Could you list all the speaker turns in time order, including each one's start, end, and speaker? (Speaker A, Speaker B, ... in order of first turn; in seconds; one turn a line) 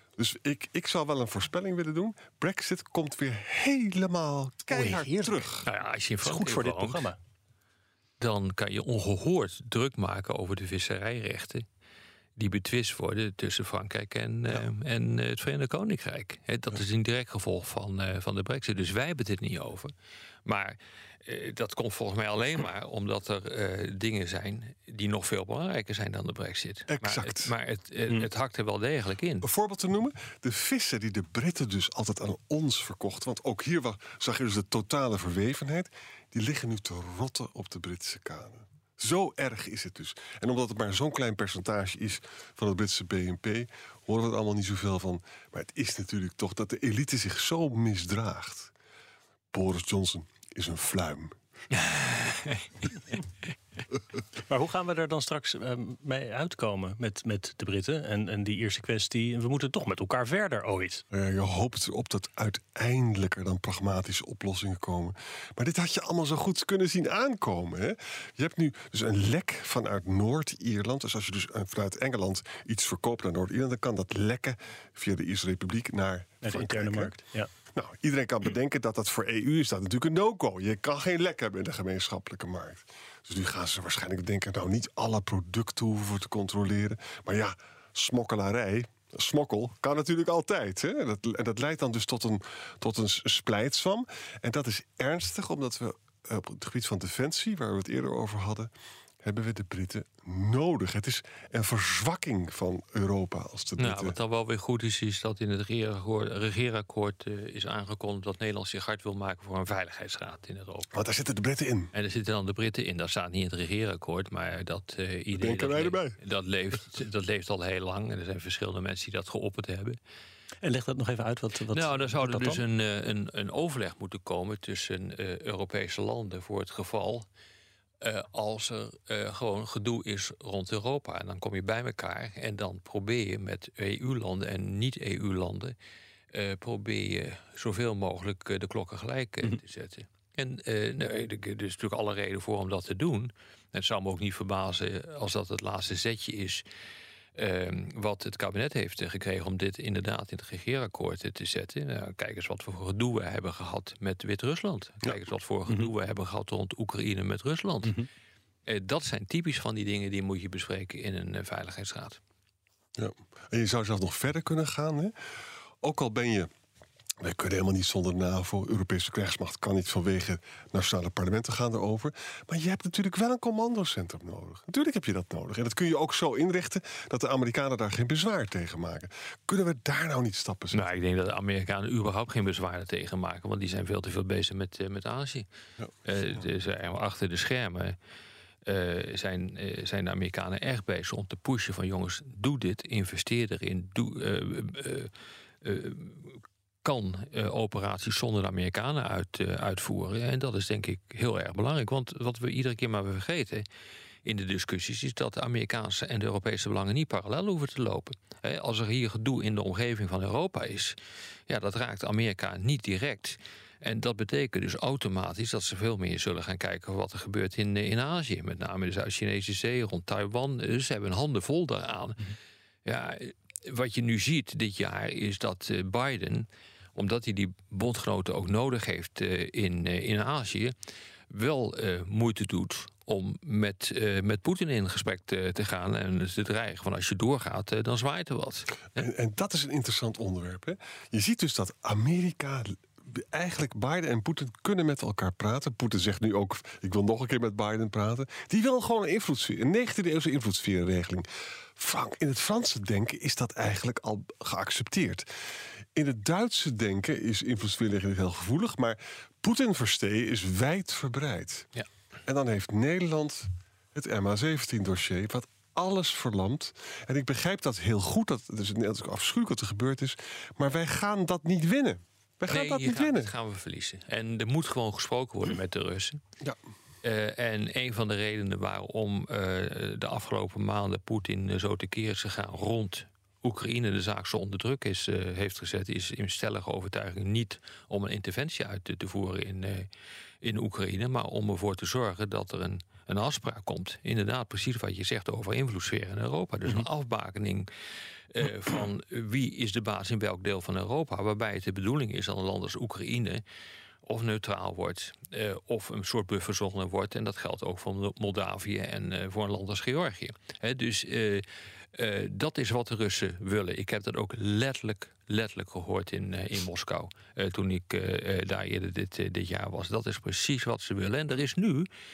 Speaker A: 0.2-5.7
Speaker B: 4.7-5.5
Speaker C: 5.7-7.1
Speaker B: 6.2-7.2
Speaker C: 8.2-11.7
Speaker C: 12.4-19.9
Speaker C: 20.4-29.5
Speaker A: 26.9-27.5
Speaker A: 29.4-48.7
Speaker A: 49.5-51.4
Speaker C: 51.7-52.9
Speaker B: 54.4-61.0
Speaker A: 61.1-77.2
Speaker B: 76.4-77.5
Speaker A: 77.7-98.7
Speaker A: 99.2-104.2
Speaker C: 103.8-111.0
Speaker A: 110.9-111.9
Speaker C: 111.9-120.0
Speaker A: 115.3-116.2
Speaker B: 120.6-122.6
Speaker C: 121.7-127.2
Speaker C: 128.0-135.8
Speaker C: 136.3-146.7
Speaker C: 147.3-158.0
Speaker C: 158.7-162.2
Speaker A: 163.0-165.1
Speaker A: 165.8-166.5
Speaker A: 167.2-180.9
Speaker C: 180.7-185.5
Speaker C: 186.1-188.0
Speaker C: 188.7-203.7
Speaker C: 204.2-211.0
Speaker C: 211.5-230.7
Speaker C: 231.3-239.1
Speaker A: 239.0-251.2
Speaker A: 251.8-255.2
Speaker A: 255.9-261.7
Speaker A: 262.2-273.3
Speaker C: 272.5-276.2
Speaker C: 277.0-289.9
Speaker C: 290.4-297.7
Speaker C: 298.3-303.4
Speaker C: 304.0-321.9